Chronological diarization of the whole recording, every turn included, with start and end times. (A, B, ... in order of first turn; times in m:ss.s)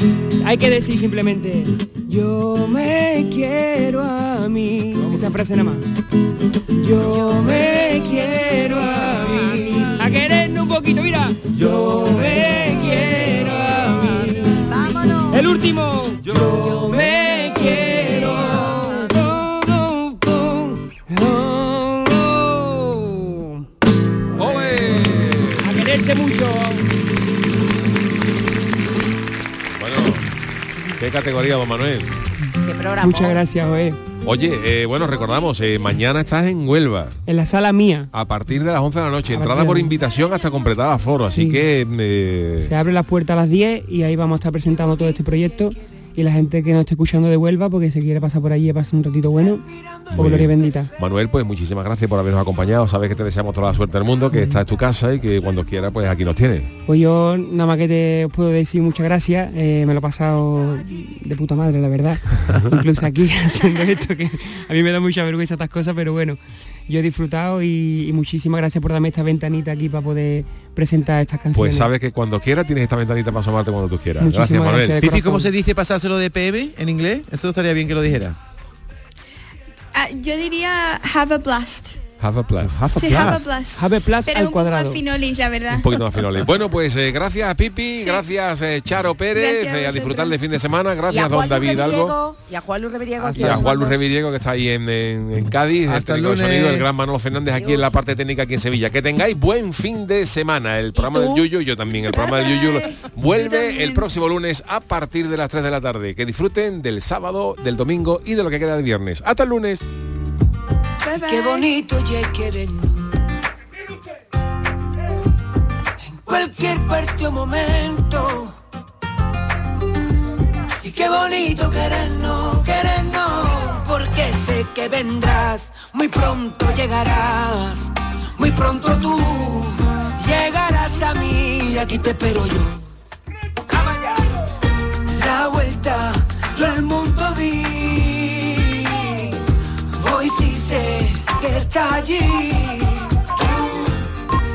0:00.4-0:05.8 A
0:06.7-0:14.7 A
0:11.7-0:12.5 B
0:14.5-0:15.4 C
0:15.3-0:23.6 A
0:16.8-0:19.0 C
0:24.3-0:25.8 D
0:25.6-0:26.8 A
0:29.7-0:30.2 D
0:31.0-0:32.1 D
0:32.6-0:33.4 C
0:33.0-0:34.0 A
0:34.2-0:37.2 D
0:37.3-0:38.1 A
0:38.1-0:42.7 D
0:39.3-0:40.0 A
0:41.3-0:41.6 A
0:42.6-0:50.9 A
0:50.1-0:56.7 D
0:54.3-0:54.6 A
0:56.8-1:11.9 A
1:11.5-1:15.0 D
1:14.2-1:15.5 A
1:15.0-1:18.4 E
1:19.9-1:22.0 F
1:22.2-1:23.0 D
1:22.6-1:23.4 E
1:22.9-1:26.0 F
1:23.7-1:25.0 A
1:25.7-1:32.2 D
1:27.9-1:28.3 F
1:29.3-1:30.4 F
1:31.1-1:34.1 C
1:33.2-1:33.7 E
1:33.3-1:49.8 D
1:35.8-1:36.9 E
1:37.6-1:37.9 C
1:41.9-1:44.1 F
1:51.0-1:51.7 F
1:51.2-1:53.1 B
1:56.2-1:58.5 B
2:00.8-2:12.8 B
2:13.7-2:14.3 B
2:15.1-2:19.4 B
2:20.0-2:24.0 B